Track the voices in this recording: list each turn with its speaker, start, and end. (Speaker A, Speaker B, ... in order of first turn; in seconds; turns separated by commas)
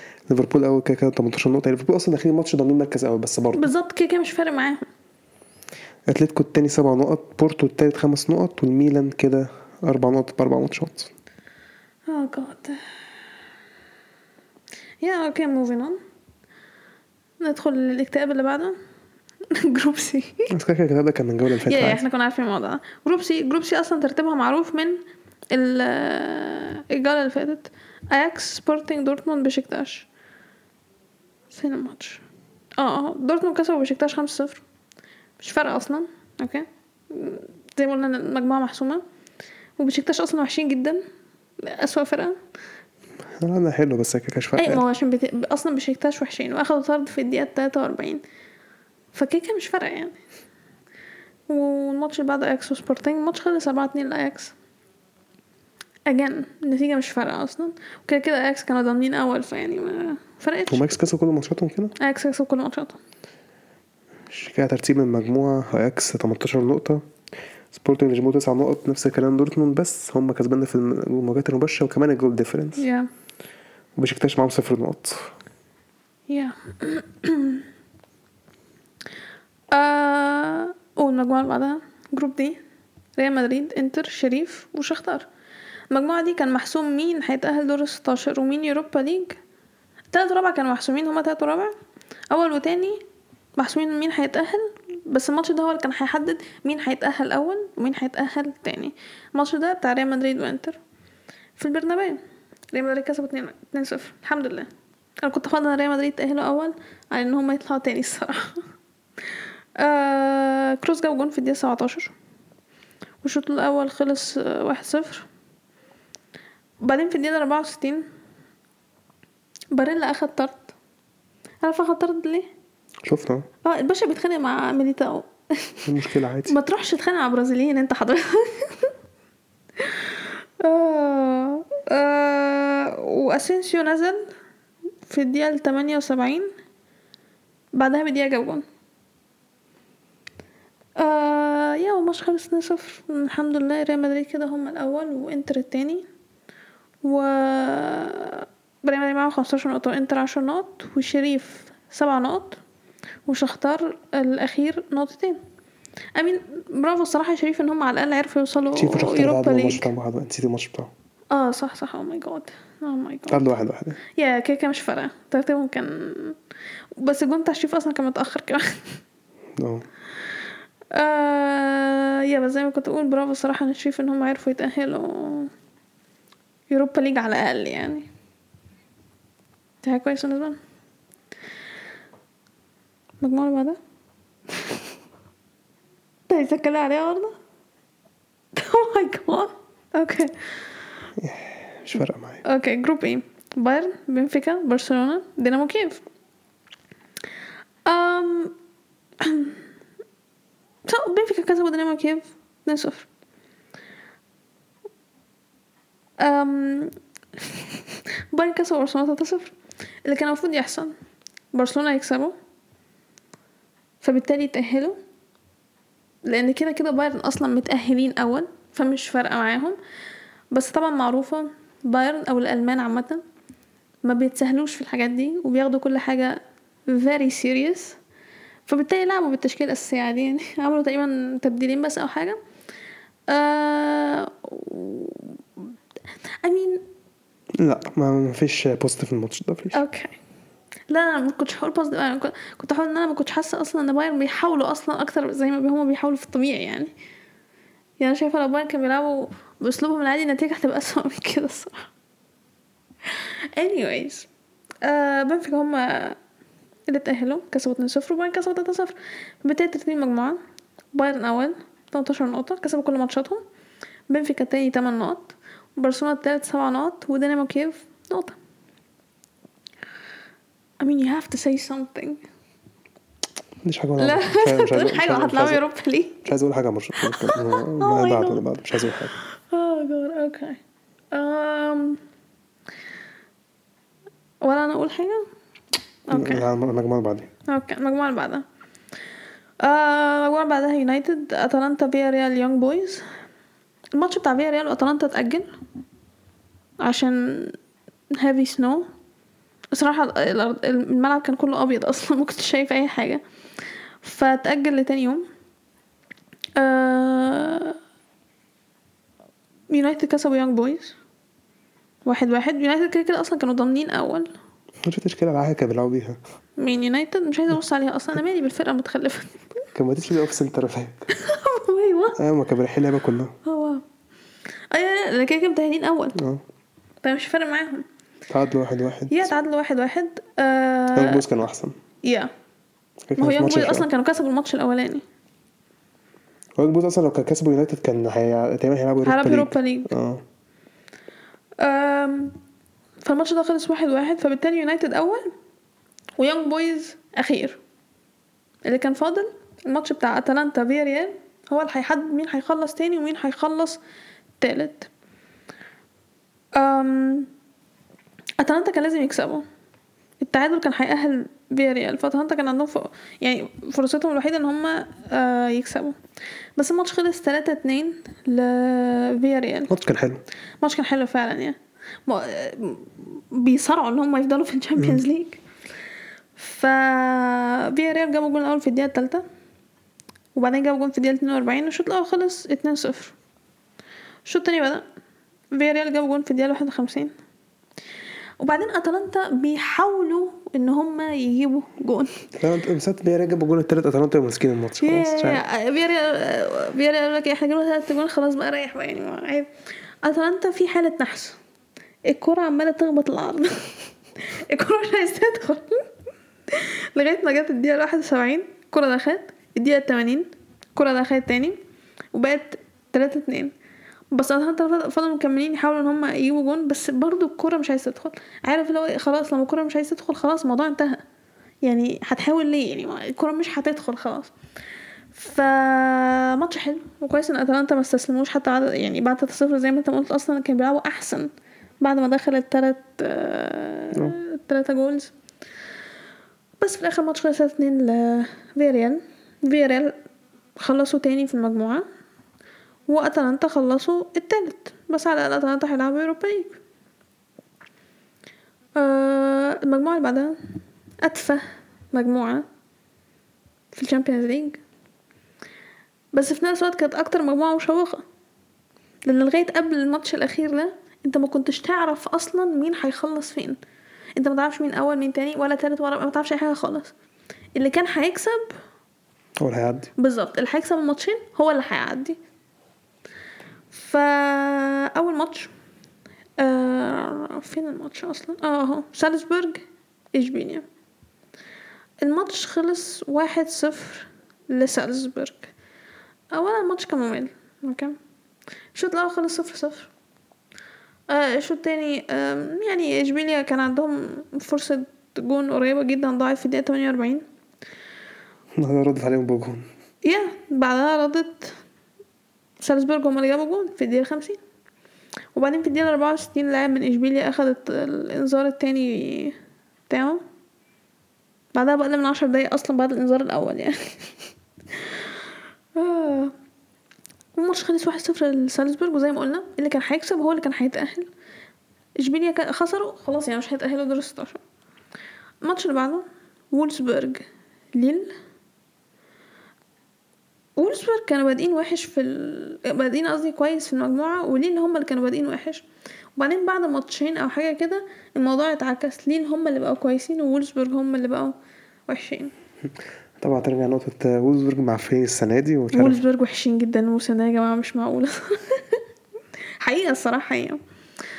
Speaker A: 0.3-3.7, Speaker B: 3.6-4.8, Speaker A: 6.1-11.1, Speaker B: 12.1-12.8, Speaker B: 15.0-16.0, Speaker B: 17.4-18.8, Speaker B: 19.5-20.5, Speaker A: 20.5-22.0, Speaker B: 21.6-25.0, Speaker B: 25.5-30.1, Speaker B: 31.5-32.2, Speaker B: 32.8-34.6, Speaker B: 35.4-39.0, Speaker B: 39.8-41.0, Speaker B: 41.6-42.4, Speaker A: 43.4-44.8, Speaker B: 44.6-48.2, Speaker B: 49.1-50.2, Speaker B: 51.5-54.5, Speaker B: 56.1-60.9, Speaker A: 60.7-61.9, Speaker B: 62.0-63.0, Speaker A: 64.3-67.0, Speaker A: 67.7-72.8, Speaker B: 72.8-73.1, Speaker A: 74.0-75.3, Speaker B: 76.3-77.6, Speaker B: 79.7-82.6, Speaker B: 83.2-85.3, Speaker B: 85.9-89.4, Speaker B: 90.1-91.7, Speaker B: 92.3-93.0, Speaker B: 93.6-100.8, Speaker B: 101.6-102.2, Speaker B: 102.7-104.7, Speaker B: 105.2-108.6, Speaker B: 109.8-112.1, Speaker B: 113.2-115.3, Speaker B: 116.8-118.0, Speaker B: 119.7-120.7, Speaker B: 121.6-122.5, Speaker A: 123.0-123.5, Speaker B: 123.6-125.8, Speaker A: 125.8-126.6, Speaker B: 126.5-128.9, Speaker B: 129.8-134.2, Speaker B: 135.1-136.5, Speaker B: 137.7-138.6, Speaker B: 141.0-146.0, Speaker B: 147.0-152.6, Speaker B: 153.3-155.4, Speaker B: 156.2-159.9, Speaker A: 158.7-160.9, Speaker B: 161.3-163.4, Speaker A: 163.3-164.0, Speaker B: 164.2-166.3, Speaker B: 167.0-168.9, Speaker A: 169.6-169.8, Speaker B: 170.9-175.5, Speaker B: 176.7-178.1, Speaker B: 179.8-180.6, Speaker B: 183.2-183.8, Speaker B: 184.5-184.8, Speaker B: 186.3-187.3, Speaker B: 188.5-190.3, Speaker A: 191.2-192.4, Speaker B: 192.4-196.0, Speaker B: 197.8-198.5, Speaker B: 199.2-199.6, Speaker B: 200.8-203.1, Speaker B: 206.2-210.9, Speaker B: 211.5-212.3, Speaker B: 214.0-215.0, Speaker B: 216.2-219.8, Speaker B: 220.5-223.2, Speaker B: 224.0-228.0, Speaker B: 228.7-232.4, Speaker B: 233.3-235.4, Speaker B: 236.4-236.8, Speaker A: 237.6-239.8, Speaker B: 239.7-240.2, Speaker B: 240.9-246.9, Speaker B: 248.0-251.9, Speaker B: 253.1-254.3, Speaker B: 254.8-256.2, Speaker B: 256.9-260.4, Speaker B: 260.9-263.4, Speaker B: 264.1-268.4, Speaker B: 270.8-272.2, Speaker A: 273.6-275.6, Speaker B: 274.0-276.3, Speaker A: 276.2-279.1, Speaker B: 276.9-278.4, Speaker B: 279.1-280.6, Speaker B: 281.1-282.0, Speaker B: 284.4-285.2, Speaker B: 286.1-286.5, Speaker A: 286.1-287.3, Speaker B: 287.5-288.4, Speaker B: 289.6-293.0, Speaker B: 293.9-295.5, Speaker B: 296.8-297.6, Speaker B: 298.1-298.9, Speaker B: 299.7-303.2, Speaker B: 304.0-305.2, Speaker B: 306.6-307.8, Speaker B: 309.7-311.0, Speaker B: 312.1-314.3, Speaker A: 314.8-316.2, Speaker B: 316.6-319.4, Speaker A: 319.8-321.1, Speaker B: 321.1-322.2, Speaker A: 322.2-323.4, Speaker B: 323.4-323.8, Speaker B: 324.7-326.2, Speaker A: 326.2-326.4, Speaker B: 327.0-327.9, Speaker A: 328.3-329.3, Speaker B: 329.1-331.2, Speaker A: 330.9-331.8, Speaker B: 332.0-332.3, Speaker A: 333.1-333.9, Speaker B: 333.2-335.0, Speaker A: 336.6-340.2, Speaker B: 339.1-339.9, Speaker B: 341.6-342.4, Speaker B: 343.0-345.3, Speaker B: 346.2-347.6, Speaker B: 348.6-353.8, Speaker B: 354.4-354.9, Speaker B: 356.6-357.3, Speaker B: 358.4-359.4, Speaker B: 360.2-365.9, Speaker B: 366.6-369.7, Speaker A: 369.7-370.2, Speaker B: 370.6-375.4, Speaker A: 374.8-375.0, Speaker B: 376.4-379.2, Speaker B: 380.4-383.1, Speaker B: 384.2-384.8, Speaker B: 385.5-387.1, Speaker B: 388.4-392.3, Speaker A: 392.4-395.4, Speaker B: 394.8-399.5, Speaker B: 400.0-401.4, Speaker B: 402.1-405.8, Speaker B: 406.5-411.6, Speaker B: 412.1-413.5, Speaker B: 414.1-421.0, Speaker B: 421.6-424.3, Speaker B: 425.1-435.1, Speaker B: 436.6-439.9, Speaker B: 440.6-441.9, Speaker B: 442.9-446.6, Speaker B: 448.8-450.4, Speaker B: 451.0-452.5, Speaker B: 453.8-454.6, Speaker B: 456.1-458.0, Speaker B: 459.1-463.6, Speaker B: 464.2-466.9, Speaker B: 467.6-468.6, Speaker A: 469.4-469.9, Speaker B: 470.0-472.2, Speaker B: 473.7-475.5, Speaker B: 476.4-480.6, Speaker B: 482.0-485.5, Speaker B: 486.3-488.0, Speaker B: 488.8-489.9, Speaker B: 491.1-497.2, Speaker A: 498.6-499.6, Speaker B: 500.0-501.6, Speaker B: 502.6-504.4, Speaker B: 505.4-509.4, Speaker B: 509.9-510.2, Speaker B: 511.5-514.0, Speaker B: 515.8-516.3, Speaker B: 517.4-521.1, Speaker B: 522.0-524.4, Speaker B: 525.4-528.1, Speaker B: 530.6-535.6, Speaker B: 536.2-541.4, Speaker B: 541.9-542.3, Speaker A: 543.2-546.0, Speaker B: 545.7-548.8, Speaker B: 549.6-550.6